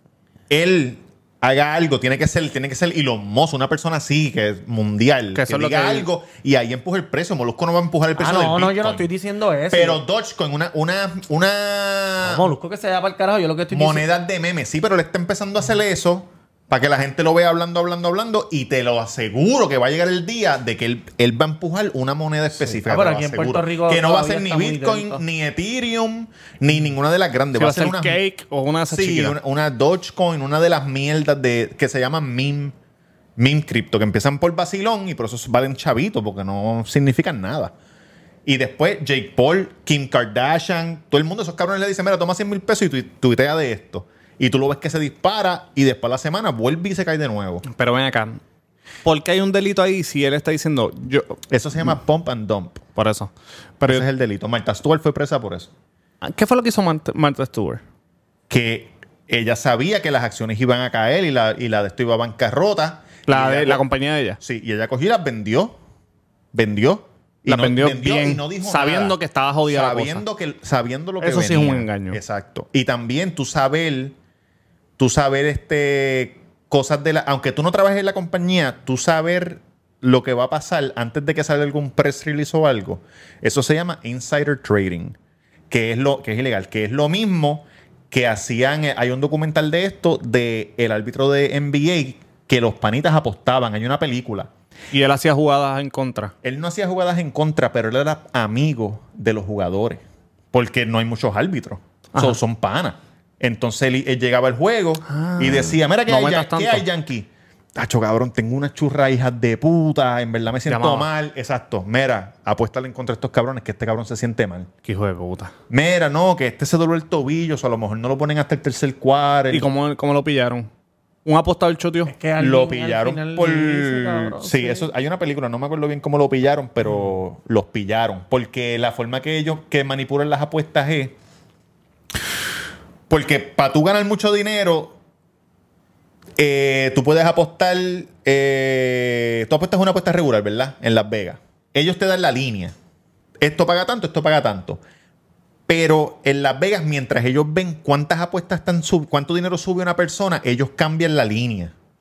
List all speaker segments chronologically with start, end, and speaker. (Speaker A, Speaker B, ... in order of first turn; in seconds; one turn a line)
Speaker A: 0.5-9.1
Speaker B: 5.3-6.1
Speaker C: 8.2-10.0
Speaker A: 9.7-12.5
Speaker C: 12.2-14.0
Speaker A: 13.7-28.2
Speaker C: 22.5-25.2
Speaker B: 27.6-29.4
Speaker A: 28.9-32.8
Speaker A: 33.4-37.7
Speaker A: 38.5-47.6
Speaker B: 47.6-48.4
Speaker B: 49.0-51.4
Speaker A: 51.5-52.9
Speaker B: 53.0-54.1
Speaker A: 53.9-55.7
Speaker B: 56.2-57.8
Speaker A: 58.5-63.8
Speaker B: 63.3-64.4
Speaker A: 64.4-65.8
Speaker A: 66.5-74.2
Speaker B: 67.5-70.2
Speaker B: 71.2-72.2
Speaker A: 75.0-85.2
Speaker A: 85.7-94.5
Speaker B: 94.9-96.3
Speaker A: 96.4-114.7
Speaker B: 105.1-106.8
Speaker B: 110.7-111.1
Speaker B: 114.8-115.5
Speaker A: 115.7-119.7
Speaker B: 119.5-120.7
Speaker B: 121.2-122.1
Speaker C: 122.1-124.9
Speaker A: 122.4-131.1
Speaker A: 133.1-135.0
Speaker A: 136.4-142.7
Speaker A: 143.4-144.8
Speaker A: 145.7-151.7